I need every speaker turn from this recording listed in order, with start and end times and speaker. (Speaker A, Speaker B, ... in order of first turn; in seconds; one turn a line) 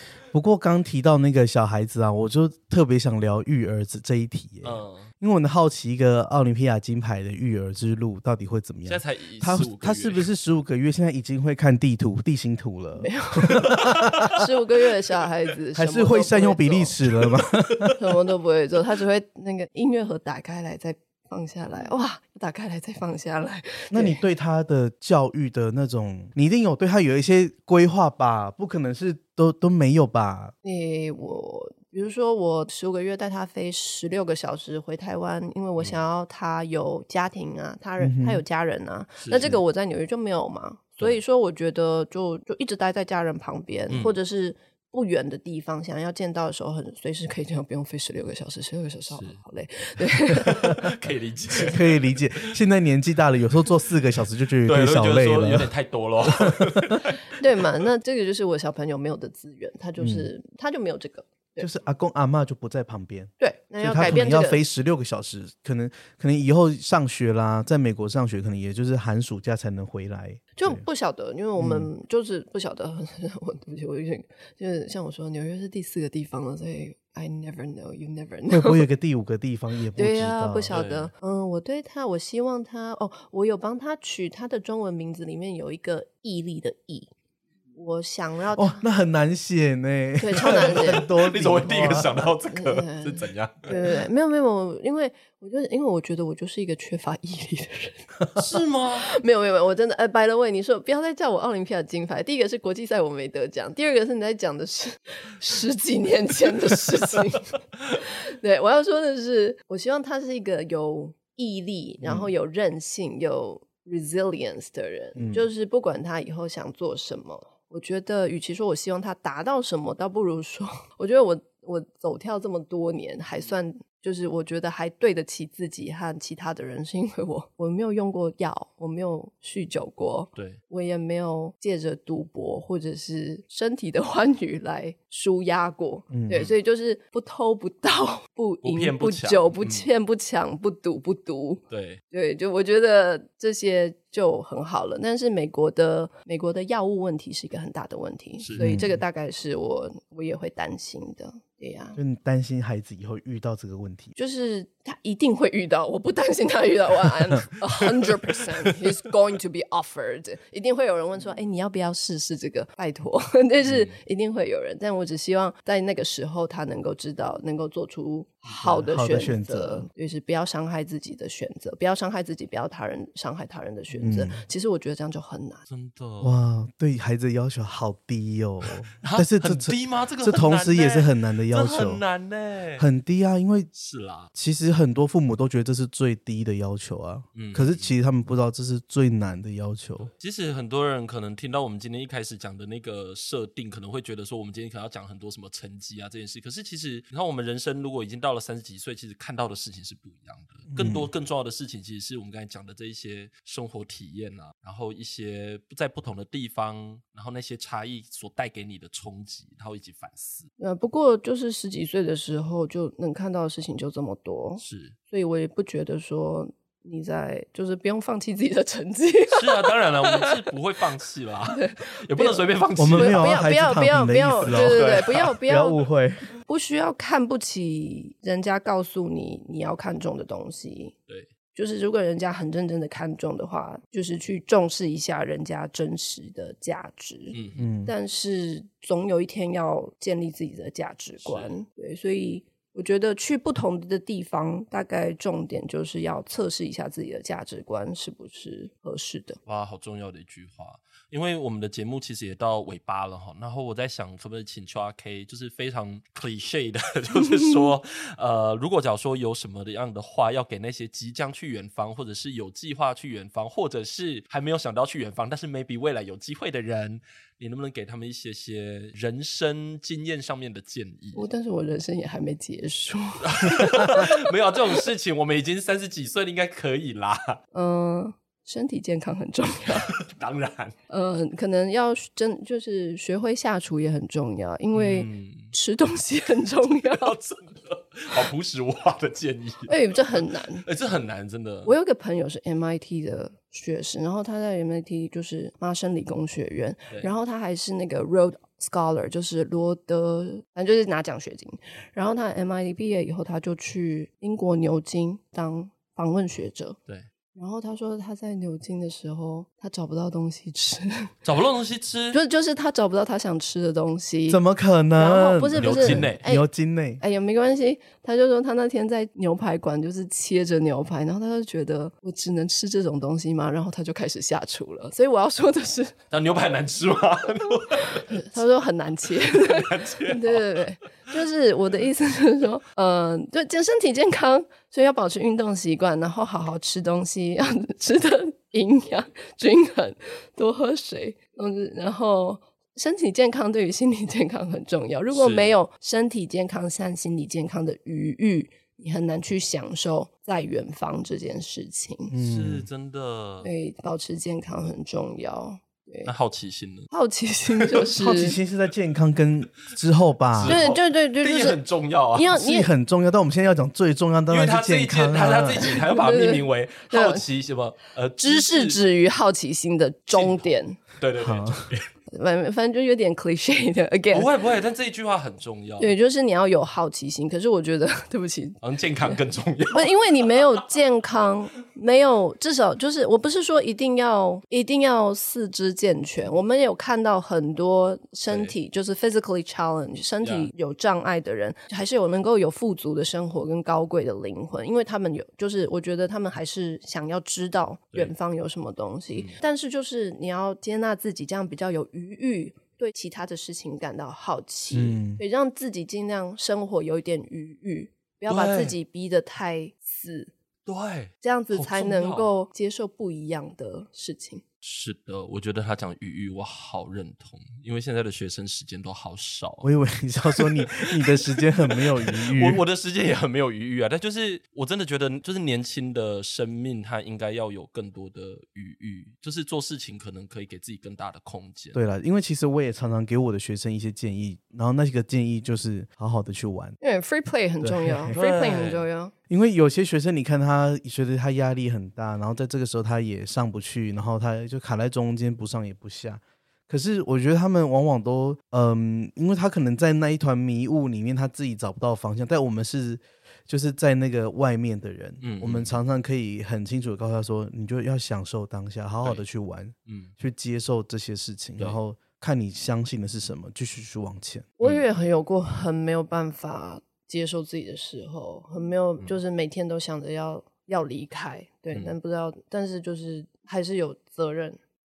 Speaker A: 0.3-14.3
Speaker B: 4.6-5.1
Speaker B: 8.8-10.3
Speaker C: 13.0-16.9
Speaker A: 15.7-18.1
Speaker C: 18.0-24.2
Speaker A: 23.9-30.5
Speaker C: 30.6-50.9
Speaker A: 38.0-38.4
Speaker B: 39.2-39.6
Speaker B: 43.9-44.1
Speaker B: 49.1-49.4
Speaker B: 50.2-52.5
Speaker A: 51.6-55.7
Speaker B: 54.6-57.4
Speaker A: 56.2-57.0
Speaker C: 57.3-61.7
Speaker A: 60.0-60.3
Speaker A: 61.6-70.8
Speaker C: 63.4-64.6
Speaker C: 70.5-78.8
Speaker A: 71.6-71.9
Speaker A: 78.5-80.7
Speaker C: 79.9-87.1
Speaker B: 80.7-81.1
Speaker C: 87.8-88.8
Speaker A: 88.5-92.1
Speaker C: 90.2-91.0
Speaker B: 90.4-93.9
Speaker C: 92.0-98.4
Speaker B: 98.3-99.1
Speaker C: 99.0-152.0
Speaker A: 115.2-115.5
Speaker B: 130.3-130.6
Speaker A: 136.1-136.4
Speaker B: 138.6-139.9
Speaker B: 141.7-142.0
Speaker B: 148.4-148.7
Speaker A: 148.6-149.0
Speaker A: 152.0-154.1
Speaker C: 154.2-175.6
Speaker B: 163.7-163.9
Speaker A: 168.6-169.9
Speaker A: 174.0-174.4
Speaker B: 175.7-176.3
Speaker A: 176.2-182.0
Speaker B: 179.0-182.8
Speaker A: 182.8-183.7
Speaker B: 183.7-184.3
Speaker A: 184.3-190.1
Speaker B: 187.3-187.9
Speaker B: 190.1-210.5
Speaker A: 200.7-201.1
Speaker C: 210.6-220.3
Speaker B: 214.6-214.9
Speaker B: 219.3-223.3
Speaker C: 221.5-225.8
Speaker A: 222.8-226.3
Speaker B: 224.4-225.4
Speaker C: 226.4-230.9
Speaker C: 231.5-249.4
Speaker B: 237.3-237.7
Speaker A: 237.6-237.9
Speaker B: 241.2-241.6
Speaker B: 249.4-271.3
Speaker C: 271.1-274.1
Speaker B: 273.2-277.4
Speaker C: 277.5-279.9
Speaker B: 279.8-280.7
Speaker C: 280.9-287.1
Speaker B: 284.7-285.5
Speaker B: 286.8-291.7
Speaker C: 289.7-290.6
Speaker C: 291.6-306.8
Speaker C: 307.4-311.1
Speaker B: 311.2-312.2
Speaker C: 312.1-314.4
Speaker A: 314.3-317.0
Speaker C: 314.9-316.5
Speaker B: 315.6-316.2
Speaker C: 317.0-326.0
Speaker B: 326.1-328.4
Speaker C: 327.9-352.1
Speaker B: 329.2-330.6
Speaker B: 345.1-345.6
Speaker A: 352.1-352.7
Speaker B: 352.1-353.5
Speaker C: 353.4-356.1
Speaker B: 356.0-356.9
Speaker C: 356.9-358.4
Speaker B: 357.6-357.9
Speaker A: 358.0-360.6
Speaker B: 360.3-362.4
Speaker C: 360.4-361.6
Speaker C: 362.1-362.7
Speaker A: 362.4-365.7
Speaker B: 364.3-368.8
Speaker C: 365.5-367.2
Speaker C: 368.2-370.8
Speaker B: 370.1-371.9
Speaker A: 371.2-371.7
Speaker C: 372.1-374.3
Speaker B: 374.1-375.9
Speaker C: 375.8-410.3
Speaker B: 378.6-379.9
Speaker B: 388.3-388.5
Speaker B: 390.2-390.5
Speaker A: 404.7-405.2
Speaker B: 408.3-408.8
Speaker B: 410.6-412.3
Speaker C: 411.2-414.4
Speaker B: 414.6-419.7
Speaker A: 419.6-422.6
Speaker B: 420.3-431.8
Speaker A: 431.7-436.8
Speaker C: 436.8-439.1
Speaker A: 437.6-438.1
Speaker B: 438.1-438.9
Speaker A: 439.3-464.5
Speaker B: 455.2-455.8
Speaker B: 459.9-460.1
Speaker C: 464.6-474.6